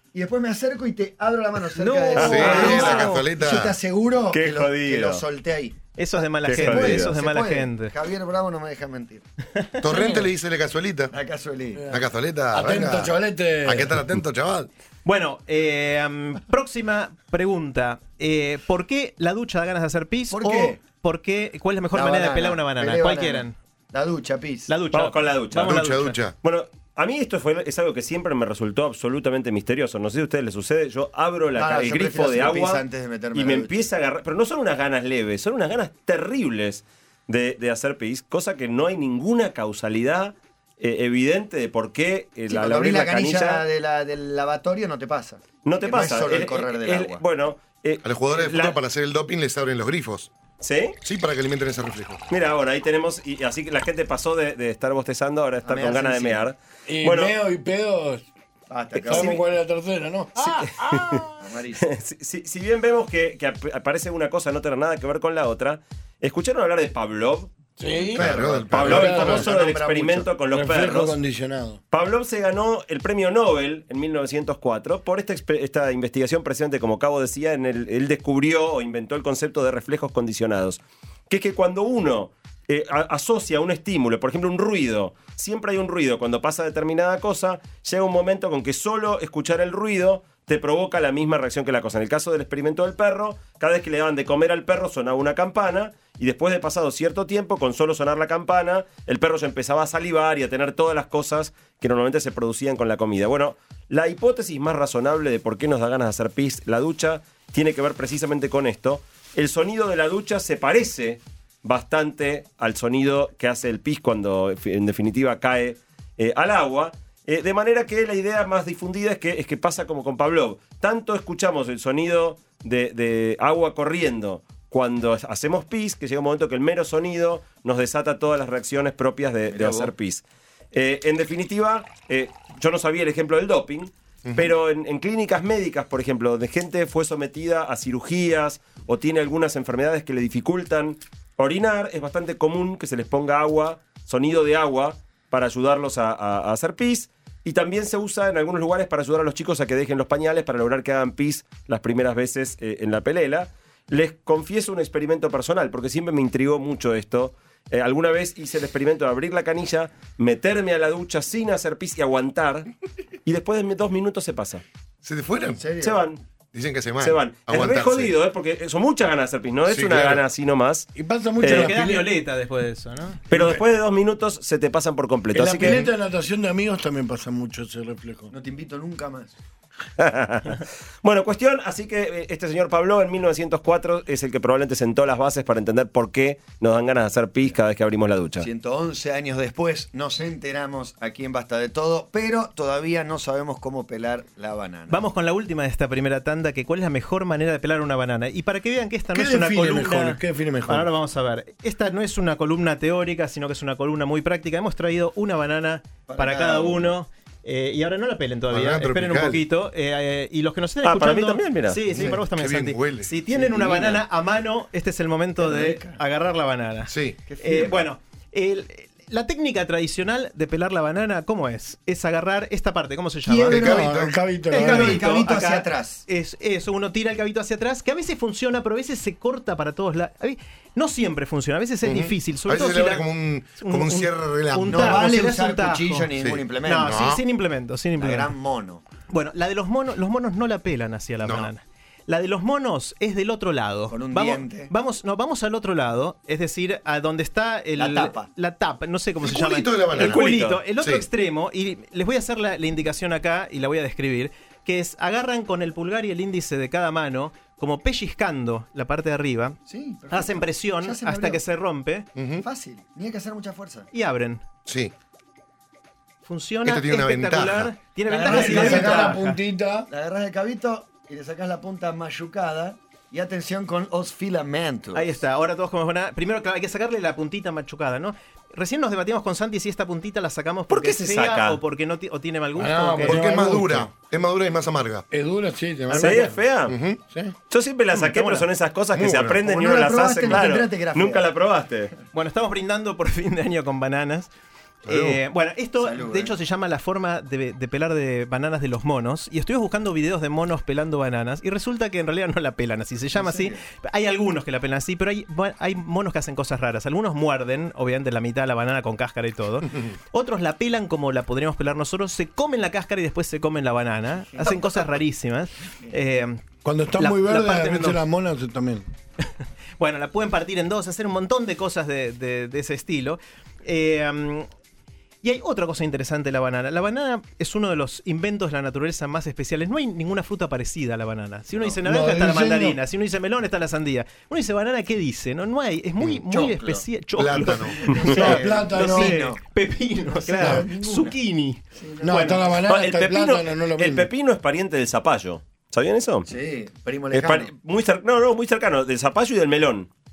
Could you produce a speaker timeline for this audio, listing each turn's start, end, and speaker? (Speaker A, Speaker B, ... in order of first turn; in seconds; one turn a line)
Speaker A: 0.1-5.8
Speaker B: 1.7-3.2
Speaker C: 2.1-2.8
Speaker D: 2.2-3.8
Speaker C: 4.3-5.2
Speaker B: 5.9-7.9
Speaker C: 6.5-7.1
Speaker A: 6.5-9.2
Speaker B: 9.5-10.1
Speaker D: 9.8-11.1
Speaker A: 11.1-11.9
Speaker E: 11.8-12.0
Speaker D: 11.9-13.1
Speaker E: 12.5-14.0
Speaker A: 12.6-13.1
Speaker D: 13.6-14.7
Speaker B: 15.0-23.6
Speaker A: 20.3-20.8
Speaker A: 21.9-24.7
Speaker B: 24.7-26.2
Speaker C: 24.9-25.8
Speaker D: 25.6-26.4
Speaker C: 26.4-32.8
Speaker A: 31.5-33.7
Speaker C: 33.3-43.6
Speaker A: 42.5-47.2
Speaker C: 45.6-48.8
Speaker D: 48.0-50.3
Speaker C: 50.6-51.0
Speaker D: 51.0-52.3
Speaker C: 52.3-57.3
Speaker A: 55.6-56.4
Speaker E: 56.9-58.2
Speaker A: 58.7-59.4
Speaker C: 59.0-59.4
Speaker E: 59.1-61.4
Speaker C: 60.4-61.2
Speaker A: 61.4-61.9
Speaker C: 61.8-67.5
Speaker E: 67.8-68.3
Speaker A: 68.0-70.3
Speaker D: 68.1-69.3
Speaker C: 68.7-71.2
Speaker E: 68.8-69.4
Speaker E: 70.5-71.8
Speaker C: 71.9-162.7
Speaker A: 129.5-129.9
Speaker D: 134.2-134.5
Speaker C: 163.2-164.6
Speaker D: 165.0-165.6
Speaker A: 165.6-166.0
Speaker C: 165.8-166.2
Speaker D: 166.5-168.2
Speaker C: 167.0-170.9
Speaker D: 169.7-170.2
Speaker E: 170.9-172.1
Speaker C: 171.4-171.7
Speaker B: 171.4-173.3
Speaker C: 173.3-175.9
Speaker E: 175.3-178.3
Speaker A: 178.3-179.3
Speaker C: 180.0-188.5
Speaker A: 188.4-195.0
Speaker B: 194.9-223.7
Speaker E: 199.1-200.9
Speaker A: 206.1-206.9
Speaker D: 208.5-209.4
Speaker C: 210.8-211.8
Speaker D: 211.9-213.1
Speaker A: 213.3-214.0
Speaker A: 215.4-216.0
Speaker D: 216.9-217.2
Speaker A: 217.3-217.8
Speaker A: 223.2-224.0
Speaker E: 223.4-225.0
Speaker D: 223.5-224.2
Speaker B: 224.5-236.1
Speaker A: 224.5-226.0
Speaker D: 231.8-235.1
Speaker A: 234.7-237.1
Speaker D: 236.2-237.2
Speaker B: 236.6-238.3
Speaker A: 238.0-238.8
Speaker B: 239.1-259.6
Speaker D: 241.2-241.5
Speaker A: 243.9-244.7
Speaker A: 247.8-248.3
Speaker D: 249.2-250.3
Speaker C: 250.0-250.6
Speaker D: 250.8-251.1
Speaker A: 259.7-261.4
Speaker B: 260.1-262.1
Speaker D: 262.1-262.4
Speaker A: 262.4-263.9
Speaker B: 263.9-264.4
Speaker D: 264.6-264.9
Speaker B: 266.2-269.4
Speaker D: 266.6-267.7
Speaker A: 268.1-269.2
Speaker E: 268.2-269.9
Speaker A: 269.9-275.1
Speaker B: 274.9-283.3
Speaker C: 280.7-281.6
Speaker E: 282.6-283.9
Speaker D: 283.0-285.0
Speaker E: 285.1-286.4
Speaker C: 285.9-286.7
Speaker D: 286.7-287.0
Speaker E: 287.1-287.3
Speaker C: 287.5-291.9
Speaker B: 287.9-288.5
Speaker D: 288.9-289.4
Speaker A: 289.4-291.3
Speaker B: 292.1-294.3
Speaker B: 294.8-316.4
Speaker D: 294.9-295.2
Speaker A: 295.8-296.4
Speaker A: 303.1-303.6
Speaker A: 314.3-314.8
Speaker E: 316.6-318.8
Speaker B: 316.9-318.0
Speaker B: 319.8-324.5
Speaker B: 325.2-342.5
Speaker E: 331.8-332.8
Speaker A: 336.1-336.8
Speaker D: 337.2-338.0
Speaker A: 337.7-339.4
Speaker E: 338.1-339.2
Speaker A: 340.1-341.1
Speaker E: 340.4-340.7
Speaker A: 341.8-342.6
Speaker E: 342.0-344.1
Speaker C: 342.6-346.3
Speaker A: 346.2-347.5
Speaker C: 347.1-349.9